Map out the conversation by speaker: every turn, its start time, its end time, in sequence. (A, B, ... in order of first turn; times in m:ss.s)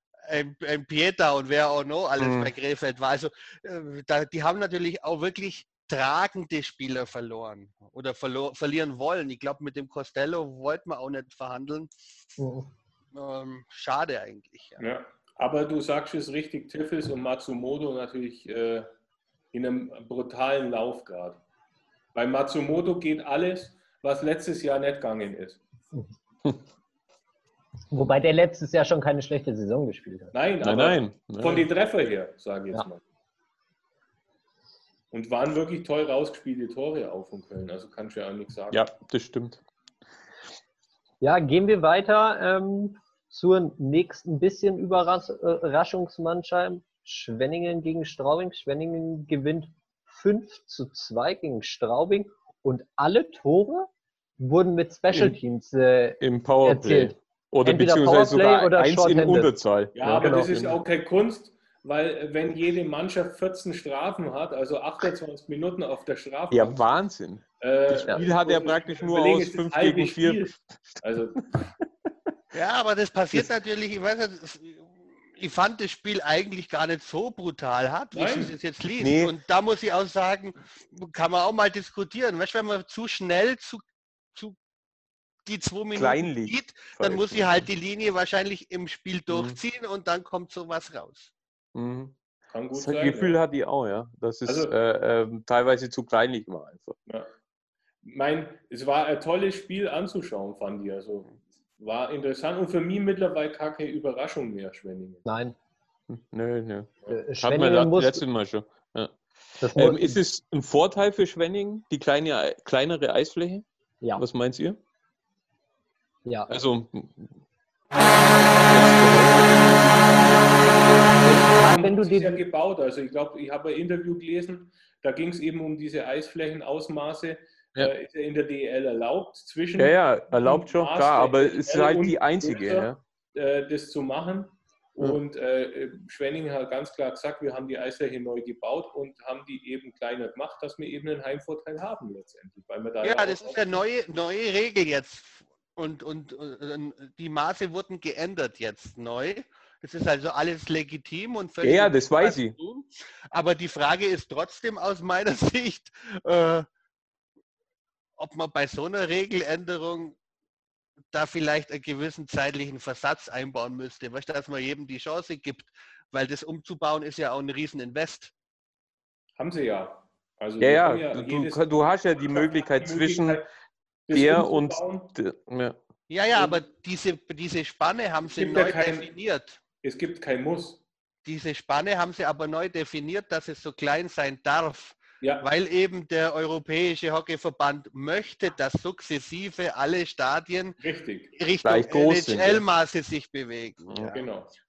0:00.3-0:11.9 A
0:02.2-0:02.5 B
0:12.4-0:12.7 C
0:13.1-0:14.8 A
0:14.8-0:18.9 D
0:19.5-0:21.4 D
0:22.1-0:25.6 D
0:27.9-0:30.3 C
0:30.3-0:33.0 D
0:30.6-0:31.6 B
0:35.1-0:38.8 D
0:38.7-0:39.6 B
0:41.2-0:59.5 C
0:56.2-1:00.8 B
0:59.9-1:07.0 D
1:00.0-1:00.5 C
1:06.5-1:11.0 B
1:07.6-1:11.6 D
1:12.5-1:23.8 A
1:18.1-1:18.5 D
1:19.0-1:19.3 B
1:25.4-1:31.3 A
1:25.9-1:27.5 B
1:29.3-1:29.6 B
1:31.7-1:32.2 B
1:32.5-1:33.4 D
1:32.7-1:37.0 B
1:34.4-1:34.7 D
1:38.0-1:45.2 D
1:45.2-1:45.5 C
1:46.1-1:53.6 B
1:47.1-1:48.2 C
1:49.6-1:50.2 C
1:54.2-1:54.8 B
1:56.5-1:57.4 B
1:58.6-2:00.1 B
2:01.2-2:02.4 C
2:01.4-2:23.7 D
2:09.8-2:13.0 B
2:23.0-2:36.6 A
2:31.6-2:32.5 B
2:38.2-2:40.2 A
2:41.1-2:48.3 A
2:49.4-2:53.5 D
2:50.6-2:53.4 B
2:54.1-2:55.1 D
2:54.1-2:55.8 B
2:56.1-2:59.6 A
2:56.3-2:56.6 D
2:58.3-2:59.1 D
2:59.8-3:00.8 D
3:01.2-3:10.8 A
3:05.2-3:05.5 D
3:10.8-3:11.3 D
3:11.4-3:14.2 A
3:11.6-3:12.6 B
3:14.1-3:14.5 D